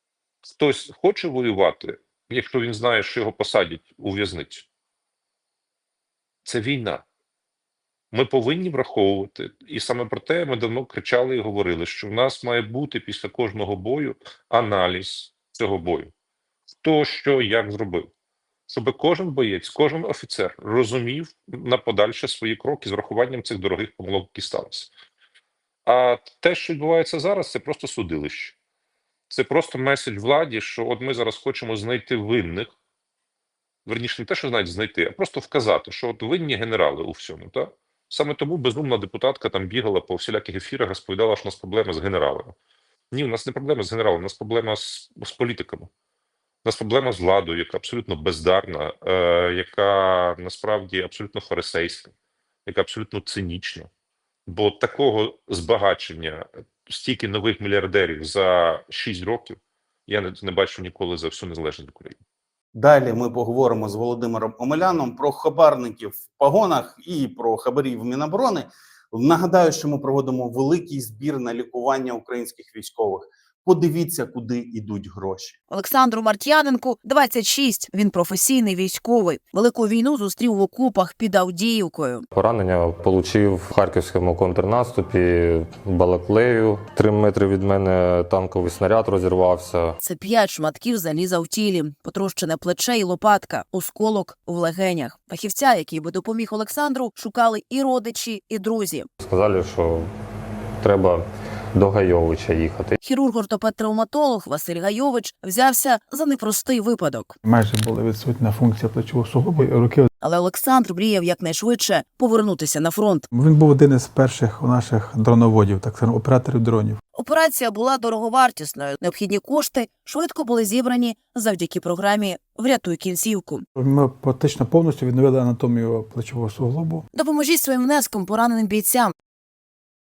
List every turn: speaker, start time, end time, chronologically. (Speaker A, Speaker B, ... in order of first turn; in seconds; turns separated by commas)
Speaker A: 0.4-4.7, Speaker A: 6.5-7.0, Speaker A: 8.1-16.1, Speaker A: 16.8-18.1, Speaker A: 18.7-24.9, Speaker A: 25.9-28.6, Speaker A: 29.3-32.7, Speaker A: 33.9-42.5, Speaker A: 43.1-45.9, Speaker A: 46.6-52.1, Speaker A: 52.6-53.9, Speaker A: 54.5-62.2, Speaker B: 62.8-75.6, Speaker C: 75.7-82.2, Speaker D: 82.3-90.0, Speaker C: 90.0-99.1, Speaker D: 99.2-100.1, Speaker D: 100.8-103.0, Speaker C: 103.0-107.4, Speaker E: 107.4-110.1, Speaker C: 110.2-113.3, Speaker E: 113.3-117.0, Speaker C: 117.1-123.6, Speaker E: 123.8-127.0, Speaker C: 127.1-129.1